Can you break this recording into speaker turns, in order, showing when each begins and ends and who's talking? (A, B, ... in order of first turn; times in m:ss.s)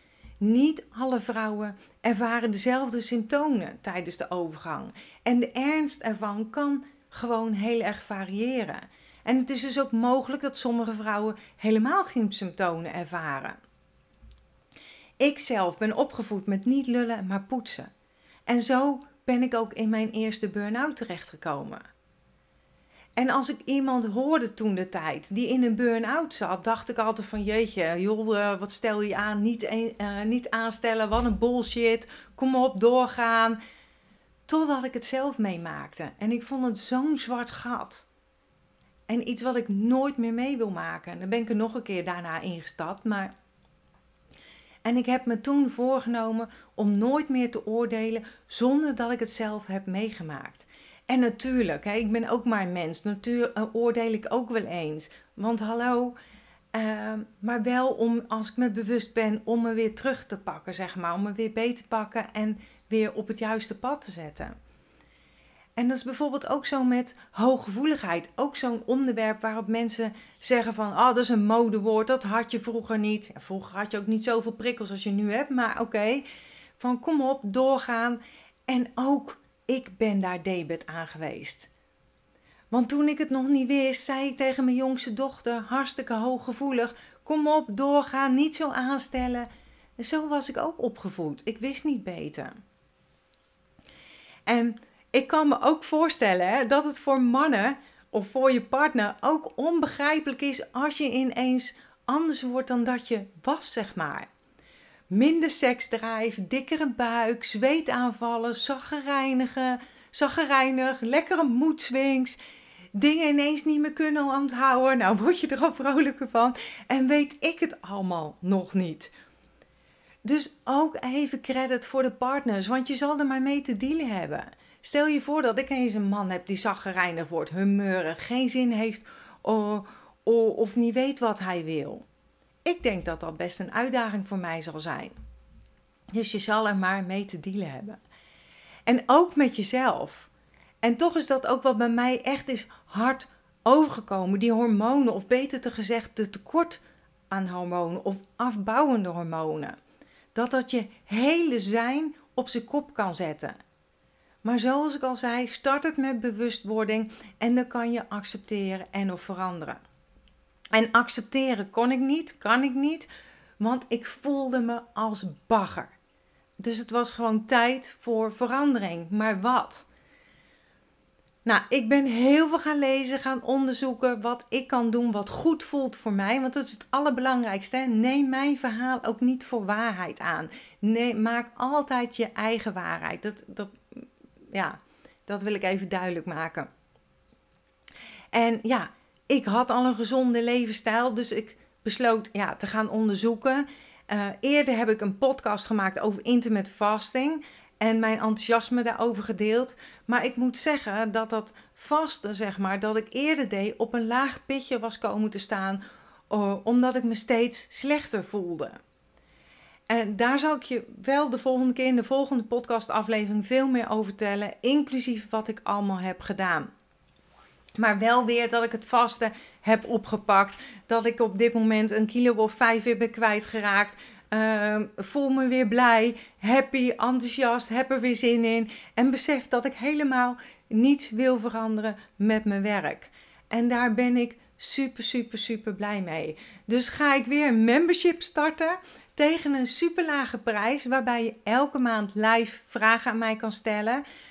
0:00.4-0:13.6 A
0:15.2-0:17.9 A
0:18.5-0:21.8 A
0:23.2-0:33.6 A
0:34.5-0:38.1 A
0:39.1-0:43.3 A
0:44.8-0:56.2 A
0:56.7-1:04.6 A
1:05.8-1:16.2 A
1:16.8-1:21.7 A
1:22.7-1:29.5 A
1:30.0-1:32.5 A
1:34.5-1:44.3 A
1:45.1-1:52.4 A
1:53.0-1:59.1 A
2:00.2-2:12.0 A
2:12.6-2:15.1 A
2:16.1-2:18.0 A
2:18.9-2:20.3 A
2:20.8-2:26.8 A
2:27.3-2:29.8 A
2:30.3-2:33.6 A
2:34.4-2:39.8 A
2:40.7-2:43.1 A
2:43.6-2:45.9 A
2:46.6-2:49.8 A
2:51.4-3:06.7 A
3:08.3-3:28.8 A
3:29.9-3:36.7 A
3:37.8-4:04.0 A